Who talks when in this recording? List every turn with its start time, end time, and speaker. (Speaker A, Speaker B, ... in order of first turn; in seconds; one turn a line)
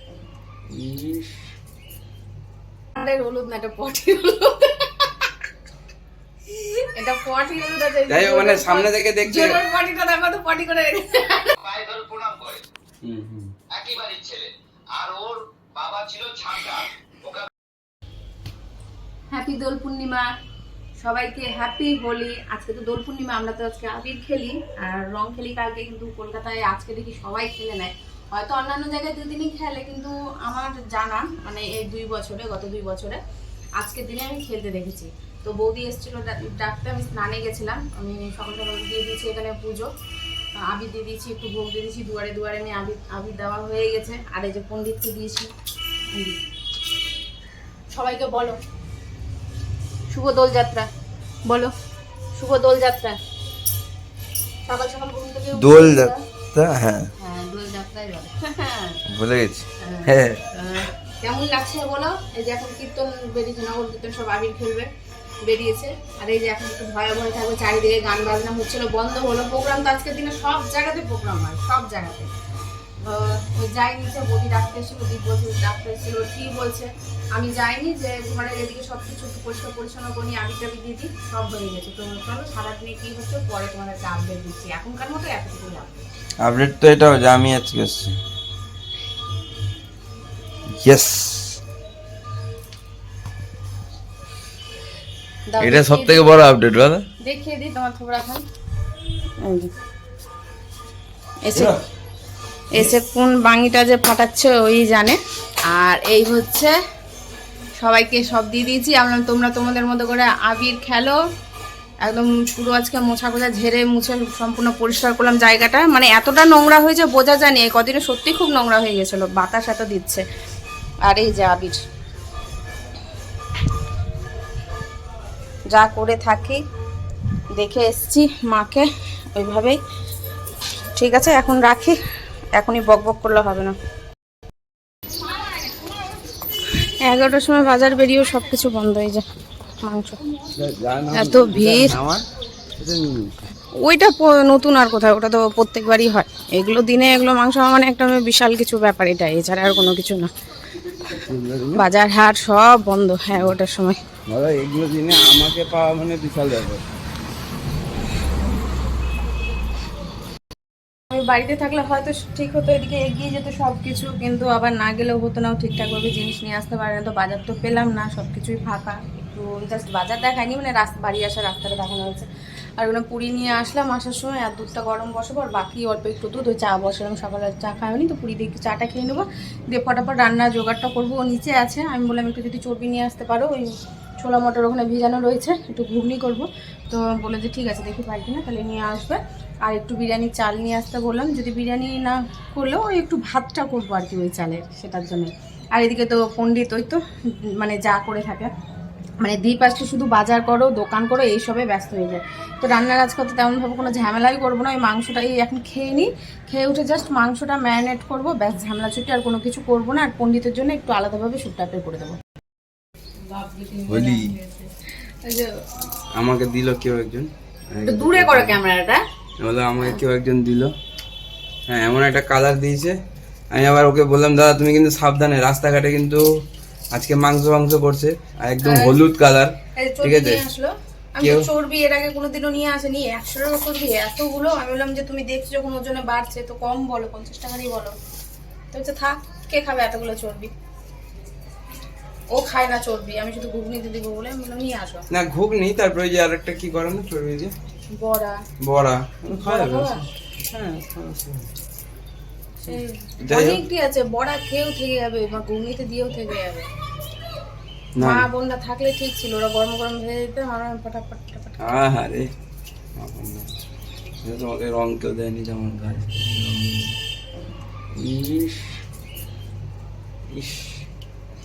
Speaker A: 0.7-1.4
Speaker B: 3.0-5.3
Speaker B: 6.6-11.6
Speaker A: 8.1-9.6
Speaker C: 11.6-12.7
Speaker A: 13.0-13.5
Speaker C: 13.7-17.5
Speaker B: 19.3-20.3
Speaker B: 21.0-33.2
Speaker B: 33.8-39.9
Speaker B: 40.6-45.5
Speaker B: 46.1-46.4
Speaker B: 47.9-48.6
Speaker B: 50.1-50.9
Speaker B: 51.5-51.7
Speaker B: 52.4-53.2
Speaker B: 54.7-56.2
Speaker A: 55.5-57.1
Speaker B: 57.2-59.0
Speaker A: 59.1-60.4
Speaker B: 59.8-64.9
Speaker B: 65.4-72.3
Speaker B: 73.0-86.0
Speaker A: 86.4-88.2
Speaker A: 90.8-91.6
Speaker B: 95.5-96.3
Speaker A: 95.6-97.1
Speaker B: 97.2-98.4
Speaker B: 99.4-99.7
Speaker B: 101.5-101.7
Speaker A: 101.5-101.8
Speaker B: 102.7-106.8
Speaker B: 107.8-111.2
Speaker B: 112.0-120.2
Speaker B: 121.0-121.8
Speaker B: 125.7-126.6
Speaker B: 127.5-129.8
Speaker B: 131.0-132.0
Speaker B: 132.6-133.8
Speaker B: 136.7-139.3
Speaker B: 139.8-140.2
Speaker A: 140.6-142.2
Speaker B: 141.1-142.0
Speaker A: 142.8-143.3
Speaker B: 143.8-150.3
Speaker A: 151.1-151.8
Speaker B: 151.8-154.0
Speaker A: 154.3-156.8
Speaker B: 161.1-198.5
Speaker B: 199.2-212.2
Speaker B: 213.3-215.8
Speaker A: 213.9-214.3
Speaker A: 216.2-218.6
Speaker B: 217.9-219.0
Speaker A: 219.4-220.7
Speaker A: 221.7-223.0
Speaker A: 223.5-226.2
Speaker A: 226.9-230.4
Speaker B: 228.6-229.0
Speaker B: 229.8-238.0
Speaker A: 231.2-231.5
Speaker B: 238.7-240.5
Speaker B: 242.3-245.1
Speaker A: 245.1-247.5
Speaker B: 247.9-248.4
Speaker A: 248.6-251.5
Speaker B: 249.3-250.1
Speaker B: 252.6-256.7
Speaker A: 253.2-253.6
Speaker A: 258.0-258.3
Speaker B: 258.0-261.7
Speaker A: 261.6-262.3
Speaker A: 263.0-263.5
Speaker A: 264.2-267.0
Speaker A: 268.0-268.7
Speaker A: 270.3-270.8